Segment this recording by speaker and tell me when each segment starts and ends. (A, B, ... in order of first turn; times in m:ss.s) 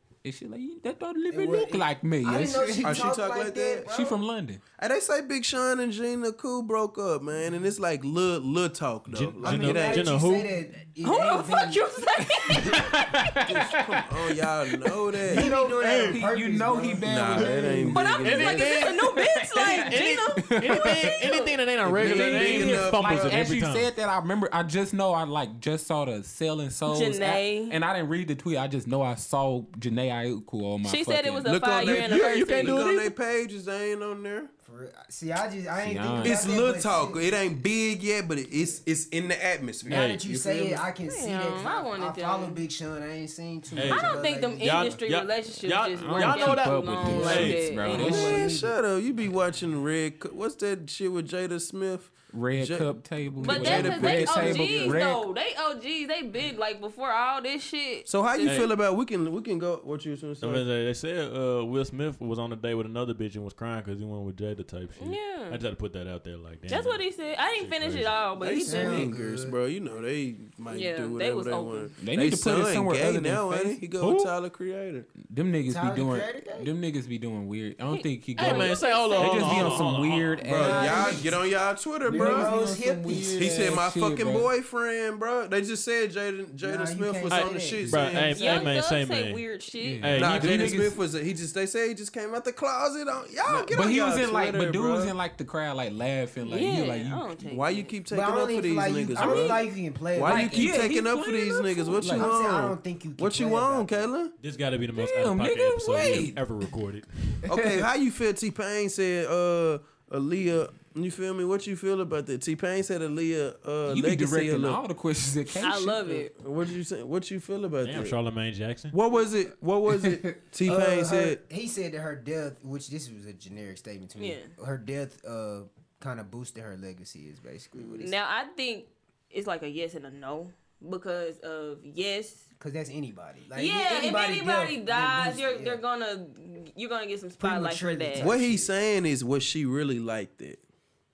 0:00.2-0:03.0 A
0:01.3-0:04.2 B
0:02.8-0:03.9 C
0:03.9-0:04.6 A
0:04.8-0:10.2 C
0:09.1-0:10.5 D
0:09.4-0:11.8 B
0:11.0-0:13.4 E
0:12.4-0:13.8 A
0:13.5-0:15.5 C
0:15.3-0:18.1 A
0:15.3-0:17.1 B
0:15.7-0:16.2 D
0:17.0-0:18.9 C
0:17.9-0:21.5 E
0:18.1-0:23.9 D
0:19.4-0:31.5 A
0:21.9-0:23.5 C
0:26.9-0:27.8 E
0:30.8-0:32.9 E
0:31.4-0:34.5 C
0:31.8-0:33.1 D
0:34.6-0:37.5 B
0:35.8-0:36.5 A
0:36.2-0:40.1 C
0:38.5-0:38.8 B
0:39.9-0:45.0 B
0:39.9-0:40.2 D
0:40.0-0:40.8 A
0:41.0-0:42.6 E
0:43.7-0:47.6 D
0:43.8-0:48.5 E
0:45.9-0:48.4 A
0:47.2-0:48.8 B
0:47.9-0:55.0 C
0:52.3-0:55.2 A
0:53.4-0:58.6 E
0:58.0-1:00.6 C
0:58.4-0:58.7 D
1:00.4-1:07.0 D
1:05.0-1:05.6 E
1:06.7-1:09.1 E
1:07.6-1:08.2 D
1:08.4-1:15.1 C
1:08.6-1:09.6 B
1:10.7-1:11.9 E
1:12.0-1:13.8 A
1:14.0-1:14.3 D
1:15.2-1:21.4 A
1:15.7-1:16.7 B
1:17.9-1:19.8 E
1:18.4-1:20.4 D
1:20.4-1:22.5 C
1:20.6-1:21.4 B
1:22.0-1:24.5 A
1:22.1-1:23.6 B
1:23.4-1:28.6 C
1:26.6-1:28.0 B
1:27.3-1:29.4 D
1:28.3-1:30.2 E
1:29.8-1:31.0 A
1:30.0-1:30.8 D
1:30.2-1:35.2 C
1:33.5-1:37.3 A
1:36.4-1:37.9 E
1:37.4-1:39.6 C
1:38.1-1:40.9 B
1:39.1-1:39.6 A
1:40.1-1:44.3 C
1:40.2-1:42.3 A
1:41.1-1:42.0 E
1:42.1-1:44.1 B
1:44.4-1:47.1 D
1:45.0-1:46.4 A
1:47.3-1:47.9 A
1:47.4-1:54.8 C
1:53.8-1:56.2 A
1:55.6-1:56.3 E
1:56.3-1:58.2 C
1:57.8-1:58.9 D
1:58.9-2:01.4 C
1:59.9-2:00.4 A
2:00.6-2:08.1 B
2:04.2-2:04.5 E
2:08.0-2:12.4 E
2:12.6-2:15.8 B
2:13.5-2:18.3 E
2:17.4-2:18.7 B
2:18.2-2:20.6 C